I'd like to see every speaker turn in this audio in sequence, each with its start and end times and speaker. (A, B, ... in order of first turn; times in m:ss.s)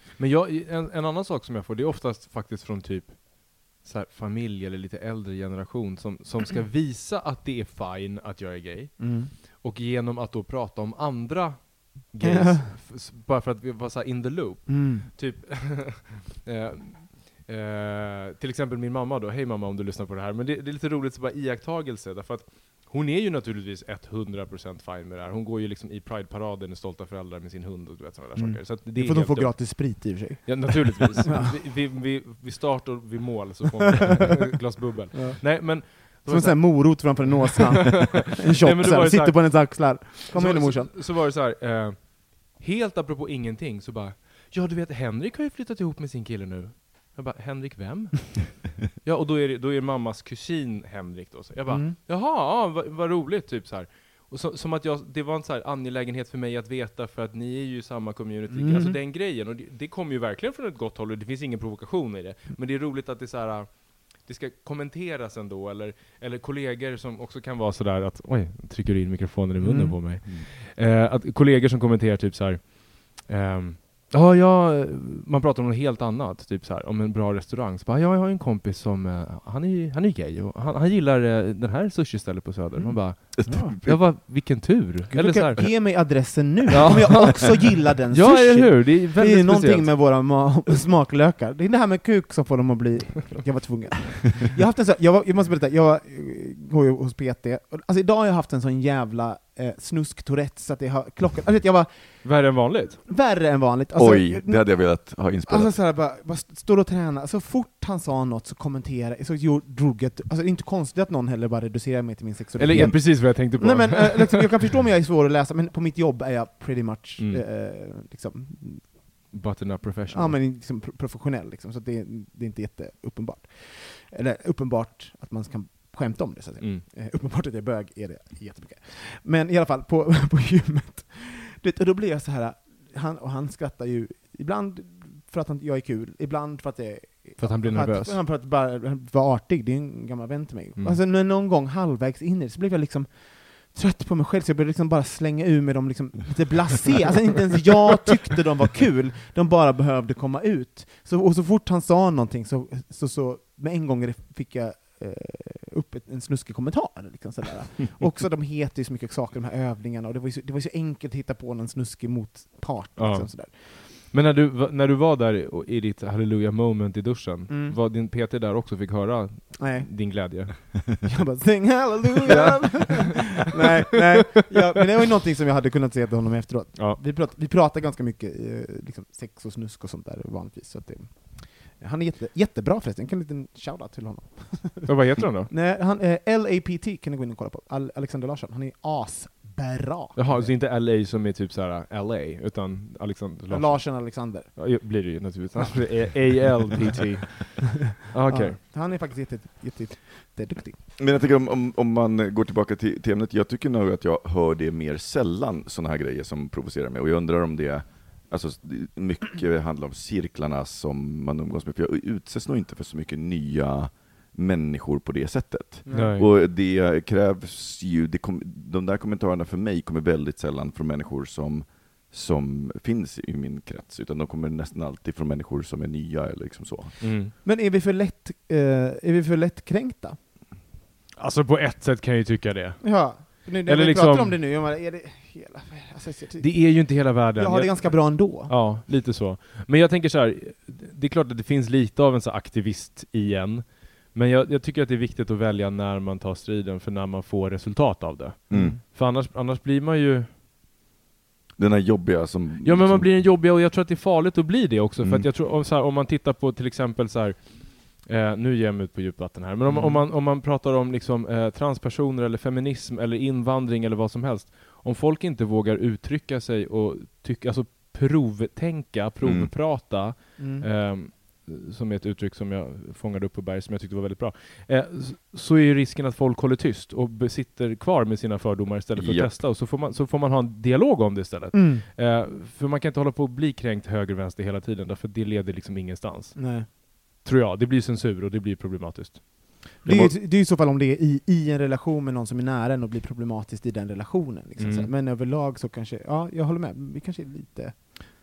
0:00.2-1:30.5 A
0:09.0-0:09.3 B
0:12.2-0:12.7 B
0:14.7-0:15.1 B
0:28.4-0:31.6 B
0:35.1-0:41.0 B
0:51.7-0:52.0 B
0:58.5-0:59.0 B
1:09.6-1:10.1 B
1:10.2-1:10.5 C
1:22.8-1:24.5 B
1:23.3-1:24.0 C
1:25.1-1:59.3 B
1:42.2-1:43.1 A
1:44.0-1:45.8 C
1:52.6-1:54.6 A
1:57.2-1:57.4 A
1:59.3-2:00.4 A
2:00.1-2:43.5 B
2:17.4-2:18.2 A
2:43.0-2:50.7 A
2:47.5-2:47.8 B
2:49.6-3:10.6 B
2:52.3-2:53.5 A
3:04.8-3:05.5 A
3:10.2-3:18.6 A
3:13.5-3:16.5 B
3:18.3-3:20.8 B
3:21.0-3:47.3 C
3:35.8-3:36.2 B
3:35.9-3:36.3 A
3:47.0-3:47.3 A
3:47.3-3:50.2 B
3:51.2-3:54.4 A
3:52.8-3:58.6 B
3:56.4-4:10.3 A
4:08.5-4:08.8 C
4:11.6-4:13.2 C
4:12.6-4:50.2 A
4:15.0-4:15.3 C
4:19.7-4:20.0 C
4:29.2-4:29.5 C
4:30.4-4:30.7 B
4:39.0-4:39.4 C
4:41.5-4:41.9 B
4:46.4-4:46.7 B
4:49.8-4:57.8 B
4:54.6-4:54.9 A